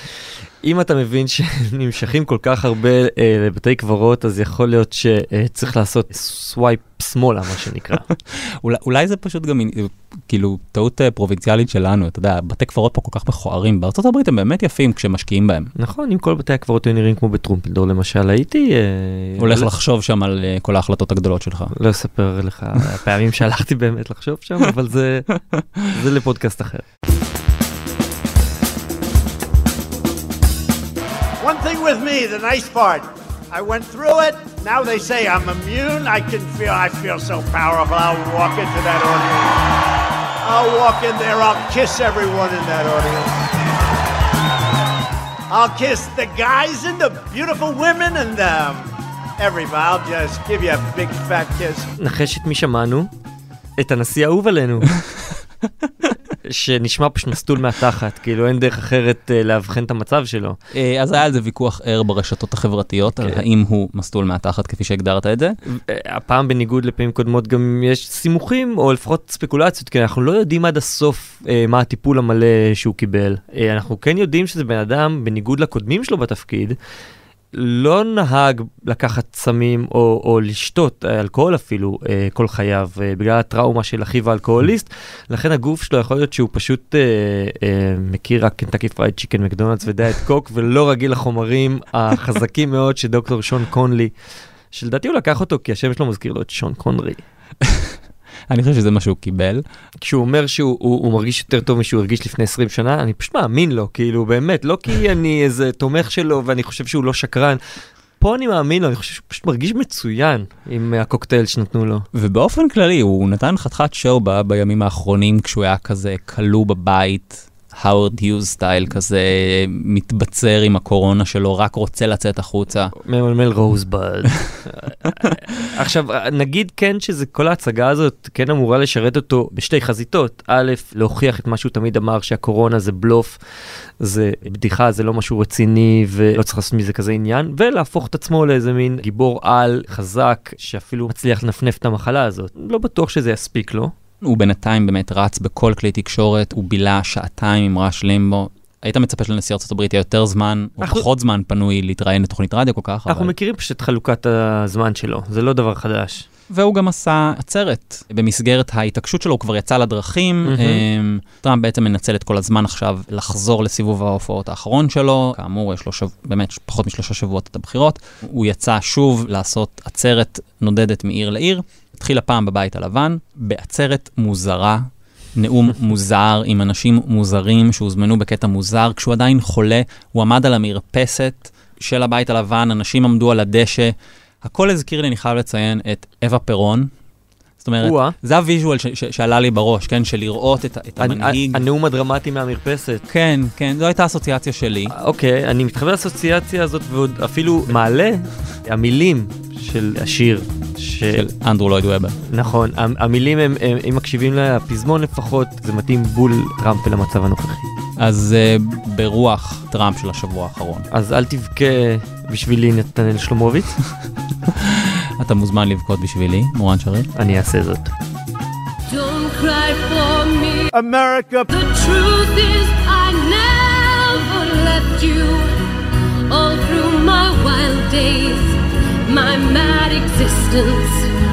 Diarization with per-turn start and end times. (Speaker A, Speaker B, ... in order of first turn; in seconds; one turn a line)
Speaker A: 0.6-8.1
Speaker B: 8.3-15.7
Speaker A: 15.8-19.7
Speaker B: 19.4-21.7
Speaker A: 21.7-26.8
Speaker C: 31.4-39.6
Speaker C: 40.4-43.4
Speaker C: 45.5-51.9
Speaker A: 52.0-53.1
Speaker A: 53.8-54.9
Speaker A: 56.4-60.6
Speaker B: 60.7-65.6
Speaker A: 63.1-63.4
Speaker A: 65.6-76.8
Speaker A: 77.5-94.1
Speaker A: 94.7-97.2
Speaker B: 97.6-97.9
Speaker B: 98.5-99.6
Speaker A: 100.0-107.6
Speaker A: 108.2-112.0
Speaker B: 112.1-122.9
Speaker A: 123.0-133.4
Speaker A: 134.0-143.9
Speaker B: 144.2-153.3
Speaker A: 150.8-151.0
Speaker A: 153.1-156.2
Speaker B: 156.5-186.9
Speaker A: 160.4-160.8
Speaker B: 187.6-191.6
Speaker A: 187.8-188.1
Speaker A: 191.0-193.0
Speaker B: 193.1-194.9
Speaker A: 194.9-201.2
Speaker B: 201.1-202.2
Speaker A: 202.3-207.7
Speaker B: 208.0-210.9
Speaker A: 210.9-213.7
Speaker B: 214.5-217.1
Speaker A: 217.1-217.9
Speaker D: 218.9-220.7
Speaker C: 220.7-221.5
Speaker D: 221.5-225.6
Speaker D: 226.3-231.1